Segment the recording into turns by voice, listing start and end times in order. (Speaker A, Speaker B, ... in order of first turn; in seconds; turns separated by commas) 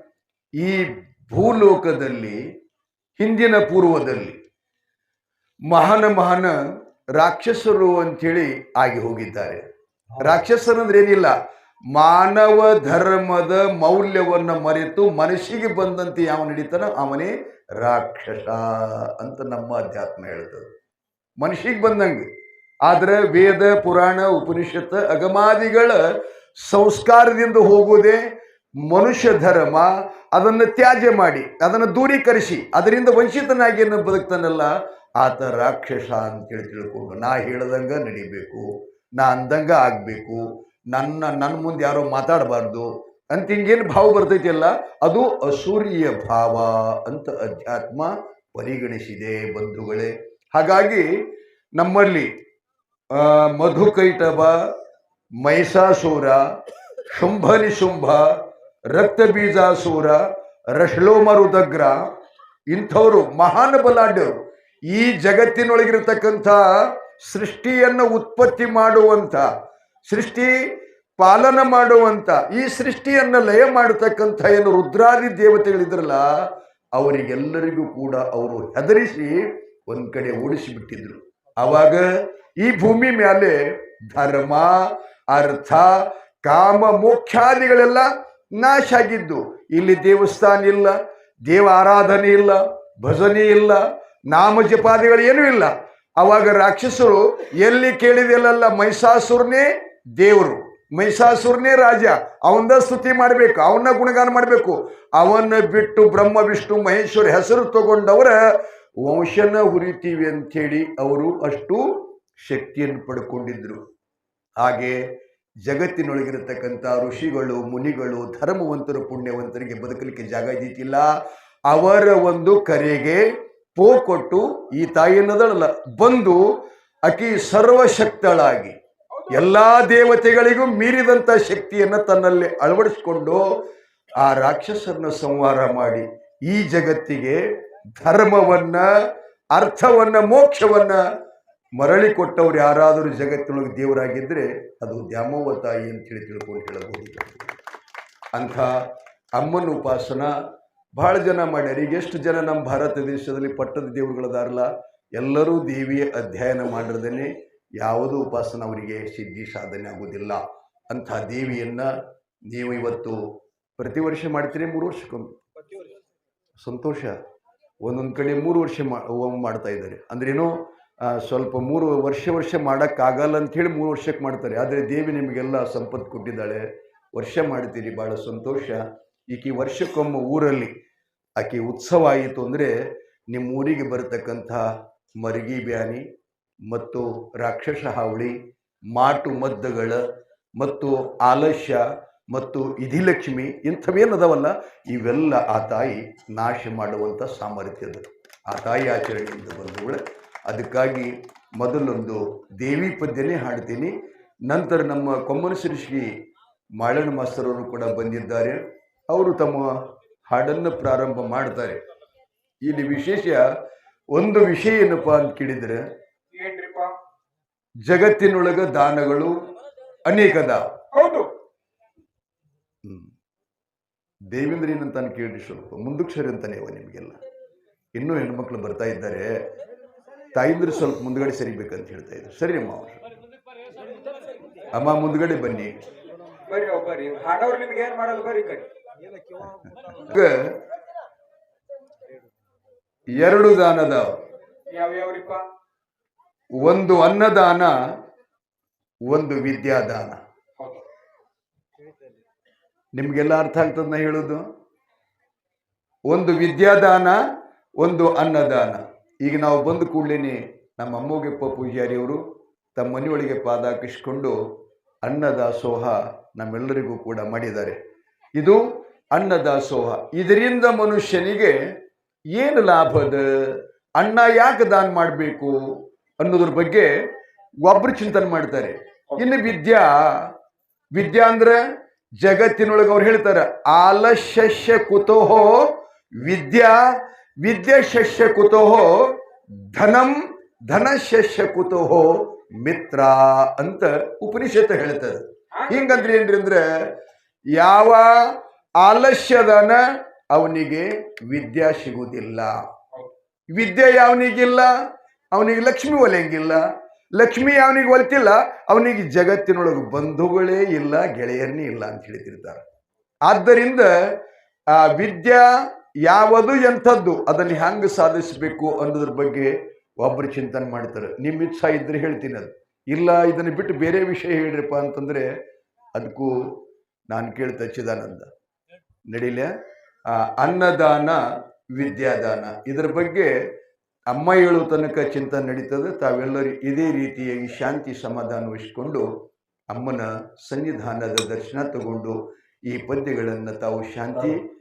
Speaker A: 0.6-2.4, Speaker A: 3.2-4.4, Speaker A: 5.7-6.5, Speaker A: 7.1-9.6, Speaker A: 10.2-11.3, Speaker A: 11.9-20.7, Speaker A: 21.4-22.2, Speaker A: 22.8-26.0, Speaker A: 26.6-28.2, Speaker A: 28.9-51.1, Speaker A: 51.8-52.3, Speaker A: 53.1-54.6, Speaker A: 55.4-56.4, Speaker A: 57.1-58.2, Speaker A: 58.9-60.2, Speaker A: 60.7-62.1, Speaker A: 62.7-64.3, Speaker A: 64.9-66.6, Speaker A: 67.2-69.5, Speaker A: 70.1-70.5, Speaker A: 71.2-82.0, Speaker A: 82.6-108.4, Speaker A: 109.0-113.8, Speaker A: 114.6-115.0, Speaker A: 115.6-121.1, Speaker A: 121.7-123.2, Speaker A: 123.7-126.4, Speaker A: 127.0-128.8, Speaker A: 129.3-133.4, Speaker A: 134.2-137.4, Speaker A: 138.0-138.9, Speaker A: 139.5-141.0, Speaker A: 141.8-147.6, Speaker A: 148.3-148.7, Speaker A: 149.4-150.3, Speaker A: 151.0-161.9, Speaker A: 162.5-163.2, Speaker A: 163.8-165.3, Speaker A: 166.6-167.2, Speaker A: 167.8-176.6, Speaker A: 177.1-180.7, Speaker A: 181.4-182.7, Speaker A: 183.3-184.7, Speaker A: 185.2-186.1, Speaker A: 186.7-188.3, Speaker A: 188.9-190.0, Speaker A: 190.6-203.9, Speaker A: 204.5-206.1, Speaker A: 206.8-209.7, Speaker A: 210.2-211.8, Speaker A: 212.6-213.4, Speaker A: 214.1-215.8, Speaker B: 216.3-216.9, Speaker A: 217.8-219.4, Speaker A: 220.0-220.7, Speaker B: 220.9-221.3, Speaker A: 222.8-223.1, Speaker A: 224.3-227.2, Speaker A: 227.9-229.4, Speaker A: 230.3-233.0, Speaker A: 234.7-235.8, Speaker B: 236.5-238.7, Speaker A: 239.5-240.5, Speaker A: 243.1-244.2, Speaker B: 244.7-245.4, Speaker A: 246.6-247.7, Speaker A: 249.1-250.2, Speaker B: 250.6-250.8, Speaker A: 252.9-254.4, Speaker A: 256.1-257.2, Speaker A: 257.8-262.2, Speaker A: 262.8-264.4, Speaker A: 265.0-267.8, Speaker A: 268.4-268.6, Speaker A: 269.1-271.6, Speaker A: 272.3-275.6, Speaker A: 276.2-276.9, Speaker A: 277.6-280.3, Speaker A: 280.9-281.6, Speaker A: 282.2-286.8, Speaker A: 287.4-296.9, Speaker B: 295.5-296.0, Speaker A: 297.5-299.8, Speaker A: 300.3-302.6, Speaker A: 303.5-304.7, Speaker A: 305.3-306.6, Speaker A: 307.1-312.6, Speaker A: 313.2-313.9, Speaker A: 314.7-325.3, Speaker A: 325.9-326.5, Speaker A: 327.1-328.3, Speaker A: 329.1-329.5, Speaker A: 330.1-331.2, Speaker A: 331.7-333.3, Speaker A: 334.1-339.1, Speaker A: 339.7-344.4